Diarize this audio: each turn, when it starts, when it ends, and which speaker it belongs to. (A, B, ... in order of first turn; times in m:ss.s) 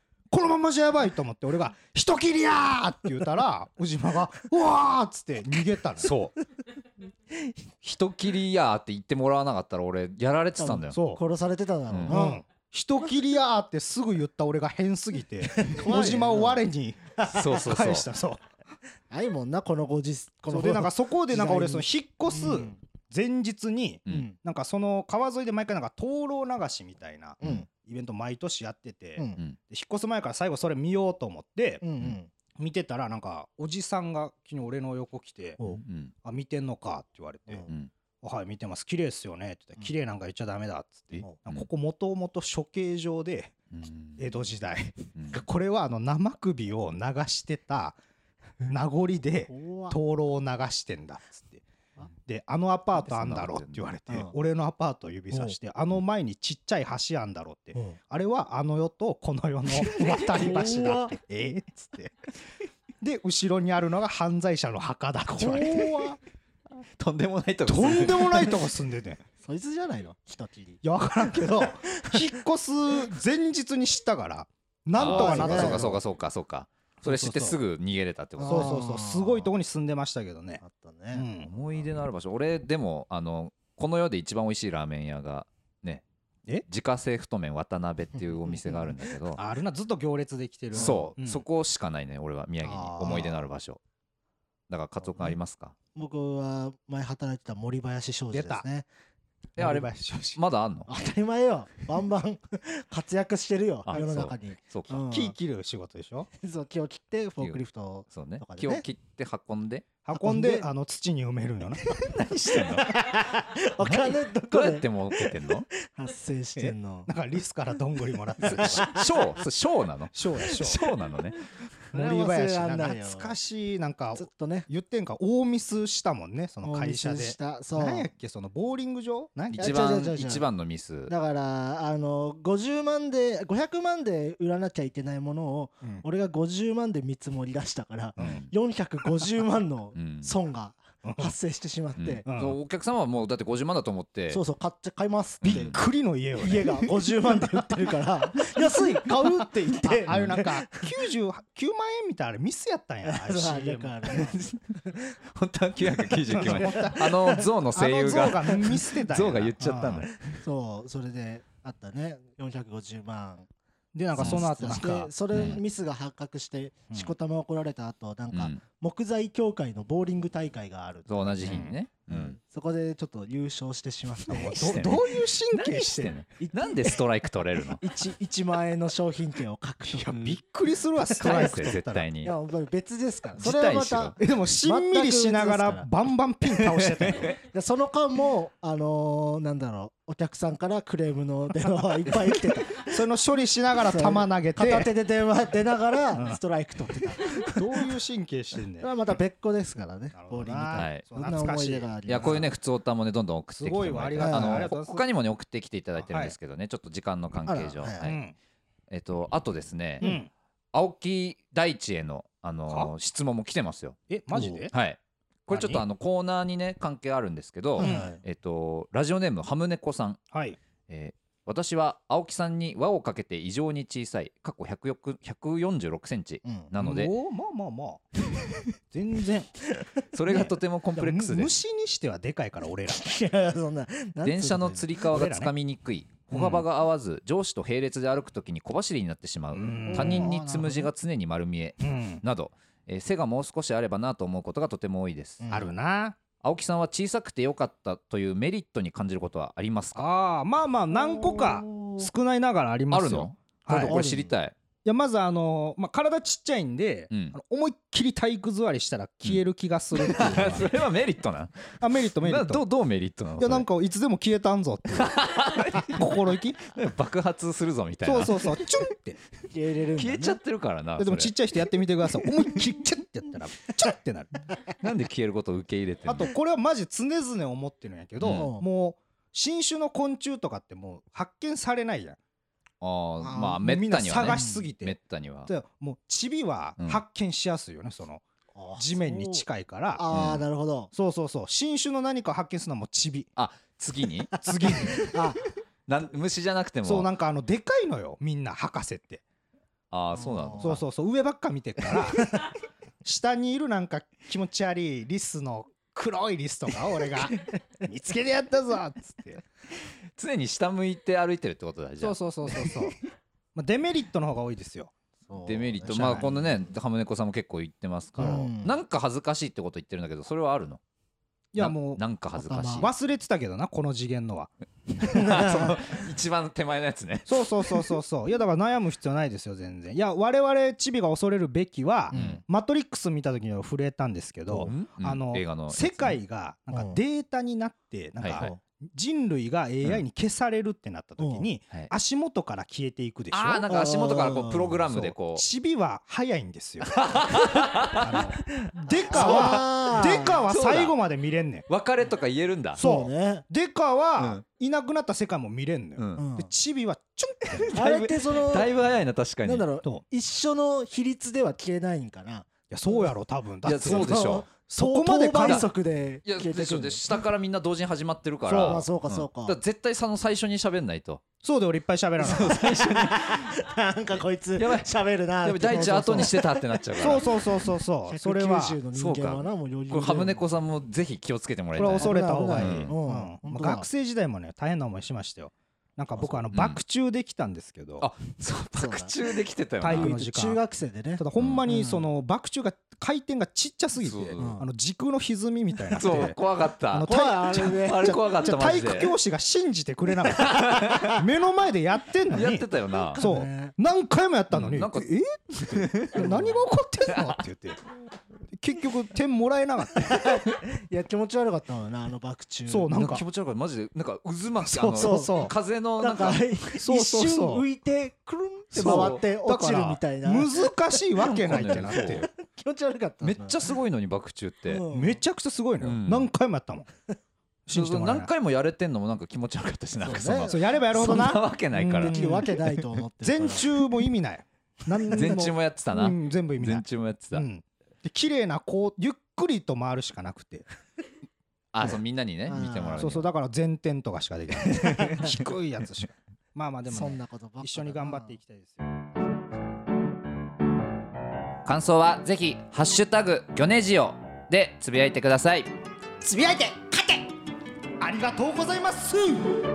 0:00.3-0:06.1 A
0:06.0-0:06.3 B
0:07.8-0:11.0 B
0:10.6-0:12.4 C
0:10.9-0:11.2 A
0:11.9-0:12.2 B
0:12.1-0:18.4 A
0:15.6-0:16.6 C
0:17.2-0:17.4 C
0:17.2-0:18.1 B
0:19.1-0:22.7 C
0:20.5-0:31.8 A
0:24.1-0:24.3 C
0:27.4-0:27.6 C
0:31.8-0:32.3 C
0:32.5-0:35.6 A
0:35.6-0:36.1 B
0:36.2-0:37.7 A
0:38.2-0:43.5 A
0:41.1-0:41.6 B
0:43.7-0:44.2 B
0:44.2-0:48.0 A
0:45.2-0:45.4 B
0:48.6-0:51.6 A
0:49.5-0:50.0 C
0:52.3-1:02.1 A
0:53.0-0:53.9 B
0:55.3-0:55.6 C
0:59.8-1:01.1 C
1:03.0-1:06.1 A
1:05.3-1:06.2 C
1:07.0-1:08.5 B
1:07.7-1:09.2 A
1:07.8-1:08.6 C
1:09.4-1:12.4 C
1:10.8-1:16.0 A
1:15.0-1:18.8 B
1:15.0-1:15.9 C
1:17.0-1:17.6 A
1:18.4-1:19.5 C
1:18.4-1:20.6 A
1:20.6-1:21.2 C
1:21.1-1:21.5 A
1:21.4-1:26.0 B
1:26.6-1:29.4 B
1:28.3-1:29.0 C
1:29.3-1:31.4 A
1:30.7-1:31.1 C
1:30.7-1:33.8 B
1:32.7-1:33.4 C
1:34.7-1:35.7 B
1:35.9-1:38.9 C
1:38.3-1:38.6 A
1:39.6-1:40.4 A
1:39.6-1:40.9 B
1:40.9-1:45.3 C
1:43.8-1:45.0 B
1:45.1-1:46.3 A
1:46.4-1:48.8 C
1:47.4-1:49.8 B
1:50.0-1:51.9 A
1:50.2-1:50.6 C
1:51.9-1:52.9 B
1:52.5-1:57.1 C
1:53.8-1:55.7 B
1:56.6-1:59.0 A
1:58.3-1:59.1 C
1:58.4-2:01.4 B
2:00.1-2:00.8 A
2:01.9-2:09.9 A
2:01.9-2:03.3 C
2:04.2-2:04.7 C
2:06.6-2:08.1 C
2:09.5-2:11.1 B
2:09.5-2:10.4 C
2:11.1-2:22.2 C
2:18.2-2:18.5 B
2:19.9-2:20.3 B
2:21.0-2:21.3 A
2:22.0-2:24.4 B
2:22.2-2:22.6 A
2:24.3-2:25.8 C
2:25.4-2:25.8 B
2:25.4-2:27.6 A
2:26.4-2:30.9 C
2:28.4-2:34.3 A
2:30.1-2:30.4 B
2:33.0-2:35.2 C
2:34.1-2:34.6 B
2:35.3-2:40.4 B
2:36.1-2:37.4 C
2:36.3-2:40.1 A
2:40.3-2:43.5 C
2:43.9-2:45.1 A
2:44.1-2:54.8 C
2:44.2-2:44.4 B
2:45.3-2:45.6 B
2:48.3-2:48.6 B
2:51.1-2:52.4 B
2:51.4-2:51.7 A
2:54.3-2:57.8 B
2:54.3-2:56.1 A
2:56.4-2:57.0 C
2:57.7-3:00.4 C
2:59.9-3:02.0 A
3:01.1-3:05.9 C
3:01.2-3:02.3 B
3:03.4-3:04.2 B
3:04.2-3:07.3 A
3:07.2-3:12.9 C
3:12.8-3:14.9 A
3:13.8-3:17.9 C
3:17.4-3:18.9 A
3:18.8-3:22.5 C
3:20.1-3:22.4 A
3:20.7-3:21.0 B
3:22.0-3:28.2 B
3:23.6-3:25.0 A
3:24.2-3:24.7 C
3:26.0-3:26.3 A
3:27.5-3:28.1 C
3:28.0-3:28.3 A
3:28.9-3:30.1 B
3:30.0-3:30.3 A
3:30.7-3:34.0 B
3:34.1-3:34.7 A
3:34.3-3:34.6 C
3:34.7-3:40.2 B
3:35.5-3:35.8 A
3:37.8-3:38.2 C
3:37.8-3:38.2 A
3:40.3-3:40.6 A
3:40.9-3:47.1 B
3:46.4-3:46.7 C
3:46.8-3:48.0 A
3:48.9-3:49.5 A
3:50.1-3:51.5 B
3:50.3-3:53.2 A
3:52.9-3:55.0 C
3:54.2-4:05.5 B
3:55.1-3:55.5 A
3:56.3-3:56.6 A
3:59.5-4:00.3 A
3:59.8-4:00.9 C
4:01.8-4:02.2 A
4:05.4-4:05.7 C
4:05.5-4:06.2 A
4:06.4-4:10.0 B
4:10.0-4:14.0 A
4:10.9-4:12.1 C
4:12.9-4:14.5 B
4:13.8-4:14.3 C
4:14.8-4:20.7 A
4:19.9-4:23.6 B
4:21.8-4:22.6 A
4:23.4-4:26.7 A
4:25.0-4:26.1 B
4:26.7-4:28.6 B
4:28.0-4:29.2 A
4:29.5-4:30.4 C
4:30.0-4:31.3 B
4:31.0-4:34.3 A
4:34.8-4:36.3 B
4:36.0-4:42.2 A
4:38.2-4:38.5 B
4:38.2-4:38.6 C
4:42.8-4:45.5 B
4:43.2-4:43.6 C
4:43.4-4:48.2 A
4:44.2-4:44.7 C
4:48.5-4:50.9 C
4:48.8-4:50.1 A
4:50.1-4:50.4 B
4:50.9-4:53.3 A
4:53.4-4:55.2 B
4:54.4-4:55.1 A
4:54.9-4:55.4 C
4:55.9-4:57.1 B
4:56.8-4:59.2 A
4:59.9-5:00.8 B
5:00.1-5:00.8 C
5:00.6-5:02.4 A
5:02.2-5:02.5 C
5:03.0-5:09.4 A
5:10.2-5:12.7 B
5:12.0-5:13.0 A
5:13.5-5:14.9 A
5:15.2-5:16.6 C
5:15.4-5:20.8 B
5:15.9-5:16.2 A
5:18.2-5:18.8 C
5:21.5-5:22.0 A
5:21.6-5:22.9 B
5:22.4-5:22.9 C
5:22.8-5:24.5 A
5:25.0-5:27.9 B
5:25.0-5:25.8 C
5:27.3-5:43.7 A
5:32.1-5:32.4 C
5:32.1-5:32.4 B
5:34.6-5:36.2 B
5:36.7-5:37.0 C
5:38.2-5:38.5 B
5:41.2-5:41.5 C
5:43.3-5:45.4 B
5:43.7-5:44.8 C
5:44.9-5:51.6 A
5:46.8-5:48.2 B
5:48.6-5:50.4 C
5:49.1-5:49.7 B
5:50.4-5:50.9 B
5:51.7-5:52.8 B
5:52.8-5:53.4 C
5:52.8-5:57.7 A
5:54.2-5:54.4 C
5:56.0-5:56.2 B
5:56.2-5:56.5 C
5:57.5-5:59.7 B
5:57.7-5:58.7 C
5:59.4-6:03.1 C
6:02.7-6:05.7 A
6:03.6-6:04.5 B
6:03.8-6:07.2 C
6:05.4-6:05.6 B
6:06.2-6:11.2 B
6:08.5-6:09.6 C
6:08.5-6:08.8 A
6:11.4-6:12.6 A
6:12.2-6:13.6 B
6:12.4-6:17.4 C
6:14.6-6:17.2 B
6:17.0-6:18.8 A
6:18.0-6:20.4 C
6:18.9-6:22.9 B
6:21.8-6:28.1 A
6:22.0-6:23.9 C
6:26.5-6:26.8 B
6:28.0-6:30.1 B
6:28.7-6:29.1 C
6:29.8-6:30.6 A
6:29.8-6:32.1 C
6:31.2-6:36.4 A
6:34.0-6:34.6 B
6:34.4-6:34.6 C
6:35.9-6:39.1 B
6:36.9-6:42.6 A
6:37.0-6:38.2 C
6:40.4-6:41.2 B
6:42.3-6:43.2 B
6:43.1-6:43.7 C
6:43.2-6:47.8 A
6:44.5-6:46.5 B
6:47.1-6:47.4 B
6:48.5-6:50.4 A
6:50.0-6:52.9 C
6:52.7-6:53.2 A
6:52.9-6:56.4 B
6:54.6-6:55.5 A
6:54.9-7:00.7 C
6:56.8-6:57.6 A
6:58.7-7:02.3 A
6:58.8-6:59.2 B
7:01.2-7:02.3 B
7:01.5-7:03.6 C
7:03.2-7:04.8 B
7:04.7-7:05.2 C
7:04.9-7:06.9 A
7:05.8-7:06.3 B
7:07.7-7:08.3 A
7:07.7-7:12.2 B
7:10.0-7:11.4 C
7:10.4-7:12.6 A
7:12.0-7:13.8 C
7:13.2-7:20.6 A
7:15.0-7:15.5 C
7:15.1-7:17.4 B
7:21.7-7:23.3 B
7:22.5-7:23.1 C
7:23.0-7:29.0 A
7:24.8-7:25.4 B
7:26.9-7:28.3 C
7:31.6-7:35.7 B
7:36.2-7:37.3 C
7:38.0-7:39.5 A